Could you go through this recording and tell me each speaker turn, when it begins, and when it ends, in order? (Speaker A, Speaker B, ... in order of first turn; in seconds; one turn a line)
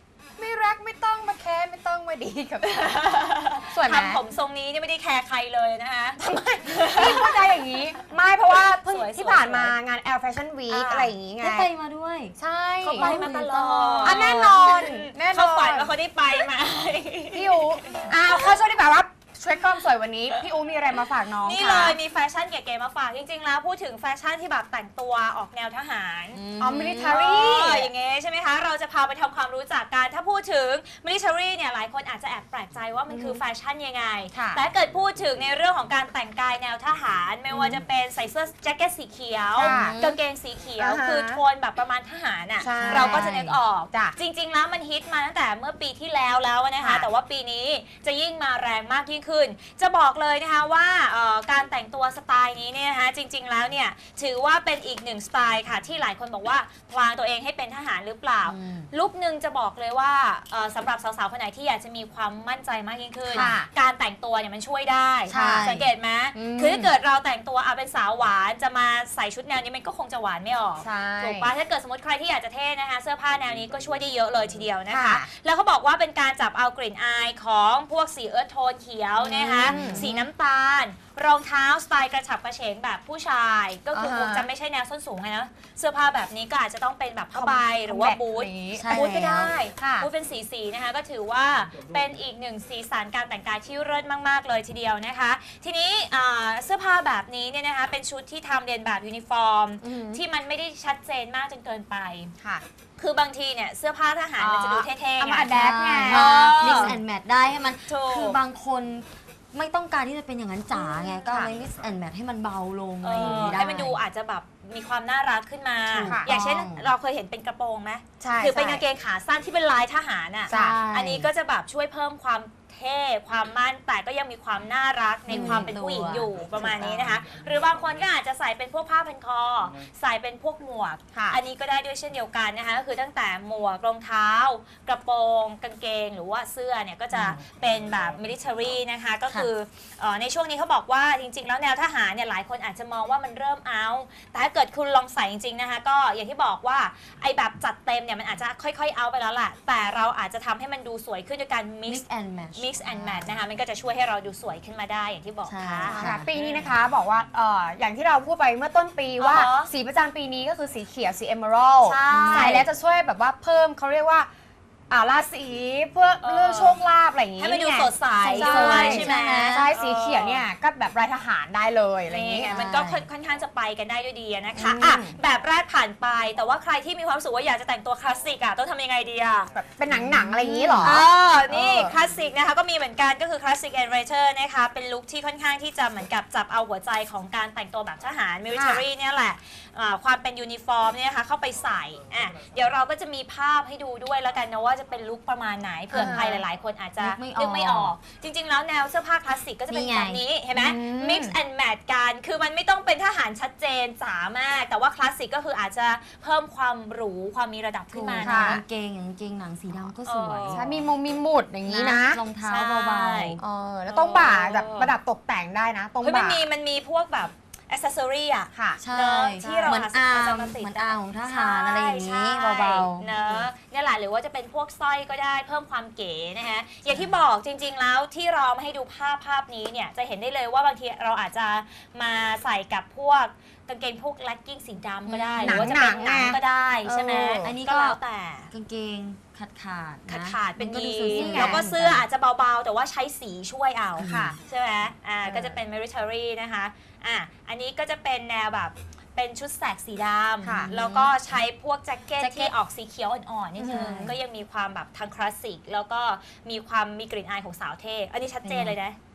Speaker A: 0.4-2.9
Speaker B: 2.6-7.4
Speaker A: 3.7-4.2
Speaker A: 6.2-11.7
Speaker B: 8.7-9.8
Speaker B: 10.7-11.1
Speaker C: 11.4-12.3
Speaker A: 12.4-13.2
Speaker B: 12.8-18.6
Speaker C: 12.9-14.4
Speaker A: 14.0-16.4
Speaker A: 17.3-22.0
Speaker B: 21.4-26.4
Speaker C: 26.3-27.2
Speaker A: 26.6-27.9
Speaker B: 27.1-102.3
Speaker A: 33.1-33.4
Speaker A: 34.3-34.6
Speaker A: 37.5-37.8
Speaker A: 39.5-40.0
Speaker C: 39.6-40.2
Speaker A: 40.8-41.4
Speaker A: 42.6-43.3
Speaker C: 42.8-43.6
Speaker A: 43.9-44.1
Speaker A: 46.8-47.1
Speaker C: 58.4-58.9
Speaker A: 63.3-63.7
Speaker C: 65.3-65.9
Speaker A: 65.3-65.7
Speaker A: 66.3-66.9
Speaker A: 70.8-71.5
Speaker A: 74.9-75.3
Speaker A: 79.2-80.1
Speaker C: 79.4-80.3
Speaker A: 83.9-84.5
Speaker A: 87.3-89.1
Speaker C: 88.7-89.5
Speaker A: 89.8-90.1
Speaker A: 99.8-100.2
Speaker A: 102.4-102.7
Speaker B: 103.0-107.0
Speaker A: 104.4-107.0
Speaker C: 105.4-114.0
Speaker B: 107.9-108.4
Speaker A: 111.2-111.5
Speaker B: 113.0-152.0
Speaker C: 115.9-116.9
Speaker A: 116.0-116.3
Speaker A: 118.2-118.8
Speaker C: 120.5-121.3
Speaker A: 120.5-120.8
Speaker C: 125.3-127.2
Speaker A: 131.1-131.4
Speaker C: 137.1-137.4
Speaker C: 151.8-152.8
Speaker B: 152.6-156.7
Speaker C: 155.4-156.3
Speaker A: 155.8-164.3
Speaker B: 159.2-159.7
Speaker B: 161.8-162.7
Speaker C: 162.1-162.6
Speaker A: 164.9-172.5
Speaker B: 166.2-166.8
Speaker B: 167.4-170.4
Speaker C: 168.2-169.7
Speaker B: 172.1-179.5
Speaker C: 172.4-173.1
Speaker A: 174.6-175.2
Speaker A: 179.5-181.9
Speaker C: 179.9-181.1
Speaker B: 180.8-208.6
Speaker A: 188.5-188.8
Speaker A: 195.9-196.4
Speaker C: 197.0-197.9
Speaker C: 199.7-200.2
Speaker A: 200.5-201.4
Speaker C: 207.9-210.8
Speaker A: 208.2-208.6
Speaker B: 210.0-210.6
Speaker A: 210.5-212.2
Speaker C: 211.6-213.4
Speaker B: 212.4-214.9
Speaker A: 213.4-216.4
Speaker B: 216.0-238.5
Speaker A: 218.5-218.8
Speaker C: 218.8-223.2
Speaker A: 219.4-219.8
Speaker C: 235.1-235.7
Speaker A: 235.4-237.5
Speaker C: 237.4-238.0
Speaker C: 238.5-242.1
Speaker B: 240.1-259.0
Speaker A: 241.1-241.7
Speaker C: 243.9-244.4
Speaker A: 244.0-244.4
Speaker A: 245.2-245.6
Speaker A: 250.4-250.7
Speaker C: 250.6-251.3
Speaker C: 252.2-252.5
Speaker A: 253.6-254.1
Speaker C: 253.6-254.2
Speaker C: 258.4-258.8